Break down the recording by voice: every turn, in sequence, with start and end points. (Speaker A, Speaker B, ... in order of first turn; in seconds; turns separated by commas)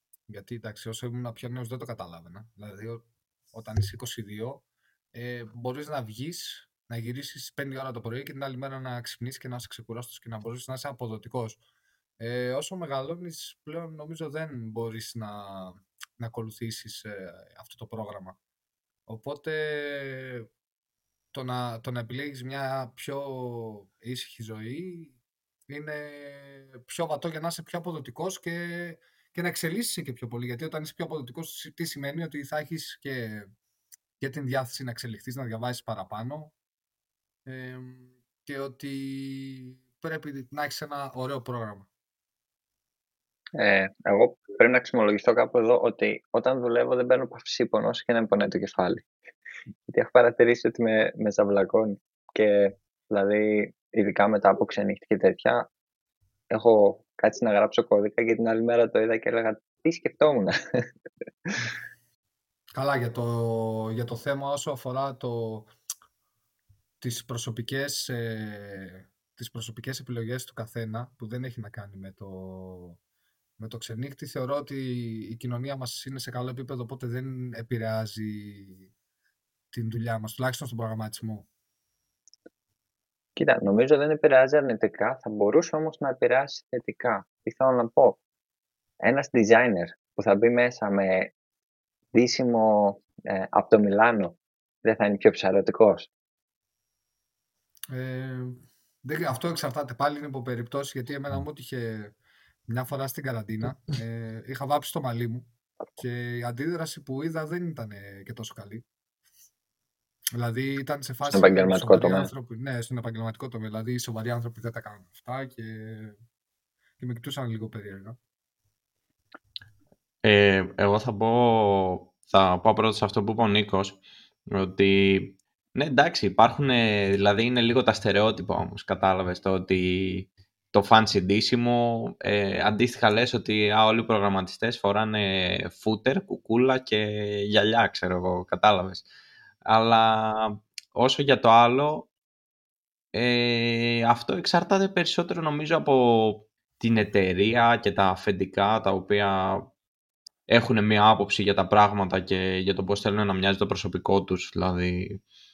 Speaker A: 0.3-11.6, Speaker A: 12.2-18.4, Speaker A: 19.1-20.5, Speaker A: 21.3-25.2, Speaker A: 25.7-33.5, Speaker A: 34.2-36.5, Speaker A: 37.5-41.9, Speaker B: 43.5-49.1, Speaker B: 49.9-55.7, Speaker B: 56.5-60.9, Speaker A: 62.8-65.7, Speaker A: 67.0-73.0, Speaker A: 73.6-78.9, Speaker A: 79.7-81.5, Speaker B: 83.4-88.2, Speaker B: 89.0-91.3, Speaker B: 92.1-96.1, Speaker A: 97.9-102.1, Speaker A: 102.7-105.5, Speaker A: 106.0-108.8, Speaker A: 110.4-116.2, Speaker B: 111.3-112.3, Speaker A: 117.0-118.2, Speaker C: 120.2-124.0, Speaker C: 124.5-139.1, Speaker C: 139.7-142.1, Speaker C: 143.1-149.7, Speaker C: 150.5-155.2